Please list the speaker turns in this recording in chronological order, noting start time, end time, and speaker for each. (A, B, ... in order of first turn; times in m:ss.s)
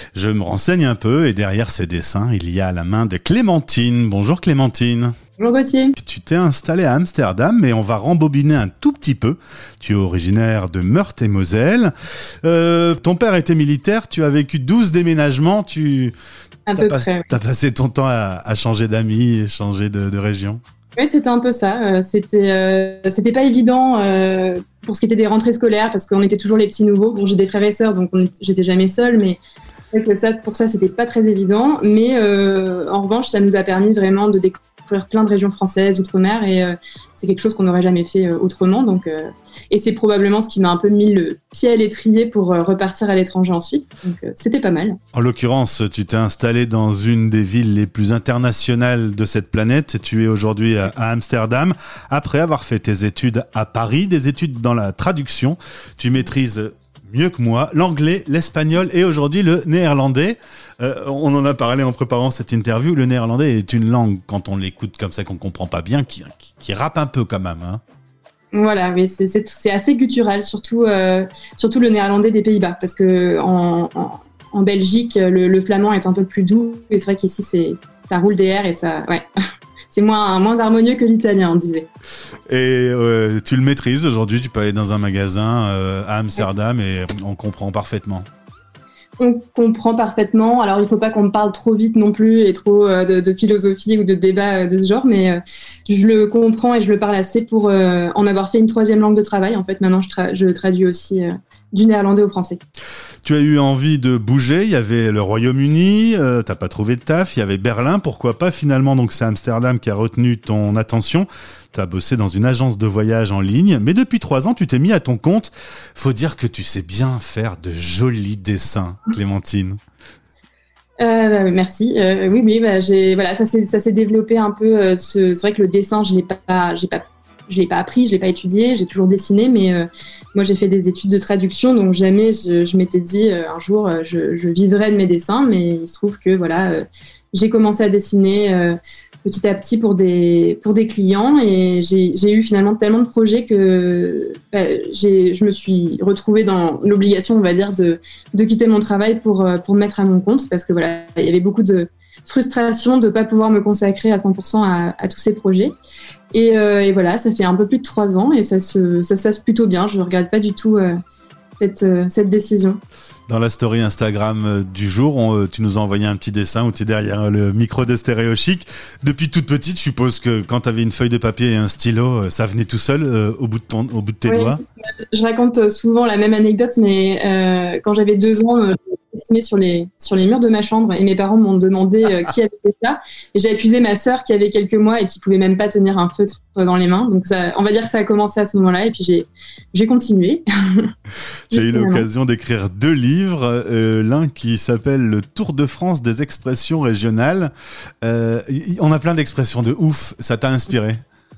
0:00.1-0:05.1 A
0:05.4-0:05.9 B
0:06.0-0:11.9 A
0:12.4-0:16.1 A
0:16.7-0:17.3 B
0:16.8-0:20.6 A
0:21.0-0:29.4 B
0:29.9-0:45.0 B
0:45.1-1:07.8 A
1:08.5-1:19.2 B
1:19.9-1:21.9 B
1:22.5-1:28.2 A
1:29.2-1:42.6 B
1:43.2-1:59.8 A
2:01.0-2:16.8 B
2:17.3-2:35.7 B
2:36.3-2:40.9 B
2:41.6-2:42.8 B
2:43.3-2:54.6 A
2:54.3-2:54.6 B
2:55.1-3:10.9 B
3:11.5-3:12.0 B
3:11.5-3:17.5 A
3:18.0-3:21.0 A